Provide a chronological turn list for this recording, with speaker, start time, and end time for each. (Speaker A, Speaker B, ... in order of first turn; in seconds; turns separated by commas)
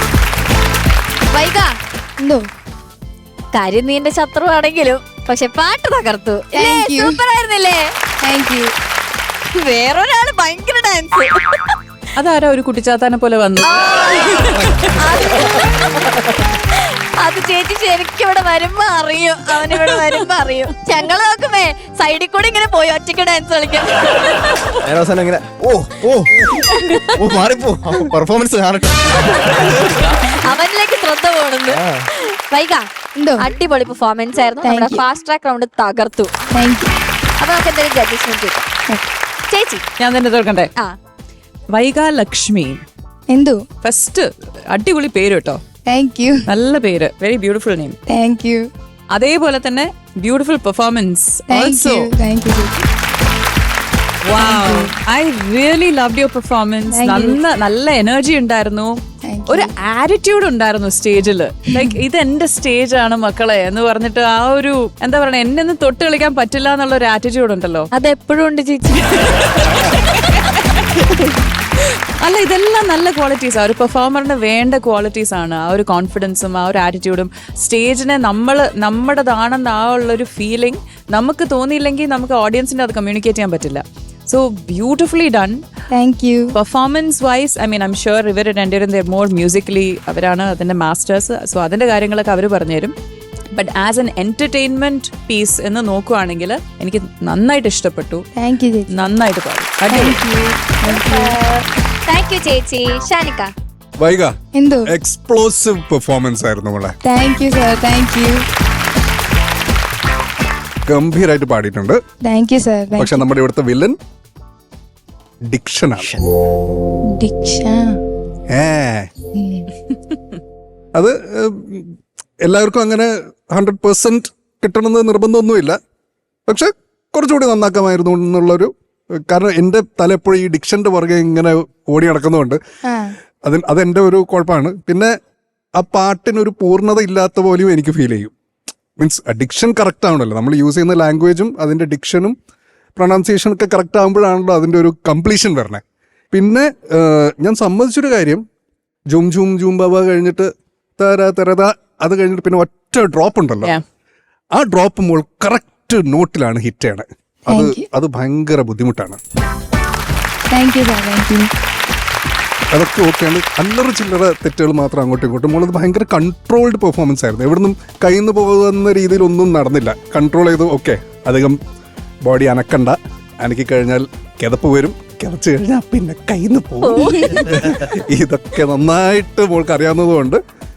Speaker A: 1.3-1.7, Speaker A: 3.5-7.9, Speaker B: 6.6-7.2, Speaker B: 8.2-8.7, Speaker A: 9.5-11.8, Speaker C: 12.2-13.8, Speaker A: 13.6-24.7, Speaker D: 24.8-30.0, Speaker A: 26.7-27.2, Speaker A: 29.4-32.9, Speaker D: 31.7-32.1, Speaker B: 33.2-33.5, Speaker A: 33.4-36.3, Speaker B: 34.6-35.0, Speaker B: 36.5-36.9, Speaker A: 37.4-38.7, Speaker A: 39.5-39.8, Speaker C: 40.0-40.7, Speaker C: 41.7-42.8, Speaker B: 43.3-43.6, Speaker C: 43.8-45.6, Speaker B: 45.9-46.5, Speaker C: 46.5-48.0, Speaker B: 48.1-48.7, Speaker C: 49.1-52.1, Speaker B: 51.5-52.8, Speaker C: 54.2-67.9, Speaker B: 54.4-54.9, Speaker B: 56.9-57.4, Speaker B: 59.2-59.7, Speaker A: 67.9-69.5, Speaker C: 69.6-69.9, Speaker C: 72.2-85.6, Speaker B: 85.9-86.5, Speaker C: 86.5-92.9, Speaker C: 93.5-98.3, Speaker B: 98.3-98.9, Speaker C: 98.9-100.3, Speaker B: 99.9-101.3, Speaker A: 100.8-103.5, Speaker E: 104.0-104.3, Speaker B: 104.5-104.9, Speaker E: 104.8-106.9, Speaker B: 107.0-108.5, Speaker E: 110.9-112.0, Speaker B: 112.2-113.2, Speaker E: 113.0-114.0, Speaker E: 115.4-116.1, Speaker B: 117.1-118.0, Speaker E: 118.5-119.1, Speaker B: 119.3-119.7, Speaker E: 120.9-125.8, Speaker E: 126.5-128.7, Speaker E: 129.3-132.6, Speaker B: 132.8-133.1, Speaker E: 133.4-135.1, Speaker E: 135.8-138.3, Speaker E: 139.0-142.3, Speaker E: 142.9-148.4, Speaker E: 149.1-153.8, Speaker E: 154.5-159.2, Speaker B: 157.5-157.8, Speaker B: 160.5-161.5, Speaker E: 162.7-171.6, Speaker E: 172.2-180.4, Speaker A: 176.8-177.9